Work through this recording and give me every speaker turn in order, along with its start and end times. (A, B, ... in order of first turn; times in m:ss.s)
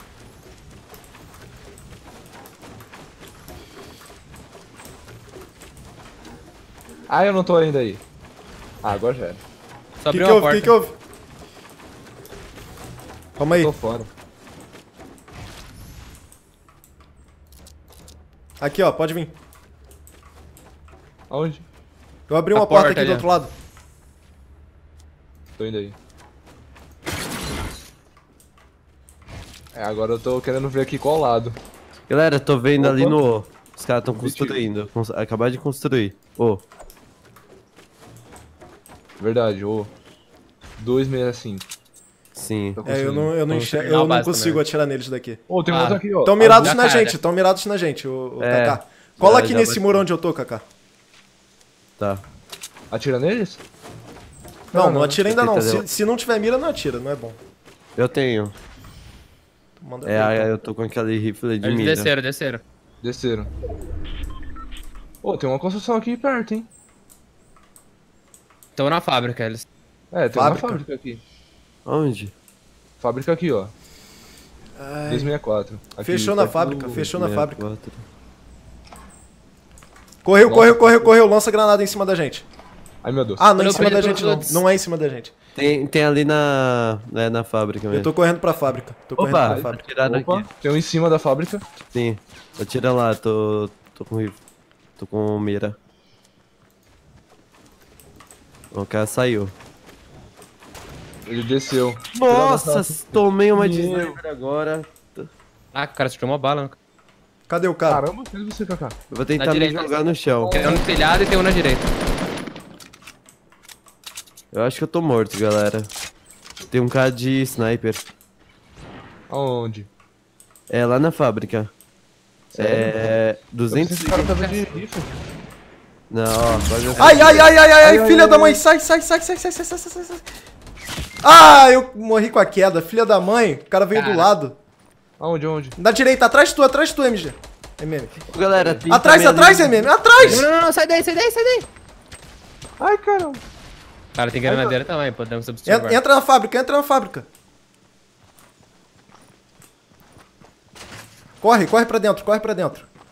0:07.1-0:08.0 A
0:08.8-0:09.4 A
0:10.0-0:10.8 B
0:10.1-0:11.0 C
0:13.4-0:13.7 C
0:13.5-0:14.1 A
0:18.6-0:19.3 C
0:21.3-0:21.6 A
0:22.3-0:23.5 C
0:22.5-0:23.3 B
0:25.6-0:26.0 A
0:29.7-0:31.6 A
0:32.1-0:36.6 D
0:32.8-0:33.2 A
0:34.1-0:34.7 A
0:39.2-0:39.9 A
0:40.8-0:41.7 A
0:42.4-0:42.8 D
0:42.8-0:43.3 A
0:42.8-0:45.4 C
0:43.5-0:44.6 B
0:45.5-0:46.8 A
0:45.7-0:47.2 B
0:46.2-0:50.6 C
0:48.4-0:50.0 D
0:52.0-0:52.2 D
0:52.9-0:53.6 A
0:54.7-0:55.2 A
0:54.7-0:57.4 C
0:55.2-0:55.9 D
0:58.0-0:58.6 D
0:59.8-1:00.5 C
1:00.0-1:02.1 D
1:01.6-1:02.6 B
1:03.0-1:03.5 A
1:05.2-1:06.7 A
1:08.8-1:09.7 B
1:10.1-1:11.2 A
1:10.3-1:10.8 C
1:11.9-1:12.3 D
1:13.0-1:13.7 A
1:14.8-1:15.4 C
1:15.1-1:17.1 A
1:16.0-1:17.6 C
1:17.0-1:18.0 D
1:20.2-1:22.5 C
1:20.5-1:21.2 A
1:23.0-1:23.5 A
1:23.4-1:25.3 C
1:23.6-1:24.6 B
1:25.6-1:28.1 D
1:27.9-1:29.9 C
1:29.2-1:30.5 D
1:29.4-1:31.6 A
1:31.9-1:34.4 D
1:35.0-1:35.8 D
1:38.7-1:39.6 D
1:41.3-1:44.2 A
1:42.1-1:45.3 D
1:45.7-1:46.8 B
1:47.5-1:48.0 C
1:47.9-1:49.0 A
1:49.1-1:50.5 D
1:49.4-1:50.0 B
1:50.4-1:50.8 A
1:50.5-1:51.9 B
1:54.5-1:55.9 D
1:56.7-1:58.0 D
1:59.3-1:59.9 A
2:00.7-2:01.7 D
2:02.5-2:03.1 A
2:02.6-2:04.2 D
2:03.7-2:05.1 A
2:04.1-2:04.8 B
2:06.1-2:07.5 D
2:07.0-2:10.3 C
2:07.8-2:08.6 A
2:11.2-2:14.6 C
2:13.9-2:14.3 B
2:15.2-2:15.8 A
2:15.8-2:18.2 C
2:18.3-2:19.9 D
2:18.5-2:18.9 A
2:18.9-2:20.5 C
2:20.2-2:21.7 B
2:22.8-2:23.4 A
2:24.2-2:26.0 B
2:24.4-2:24.8 A
2:25.7-2:27.3 C
2:31.4-2:32.9 C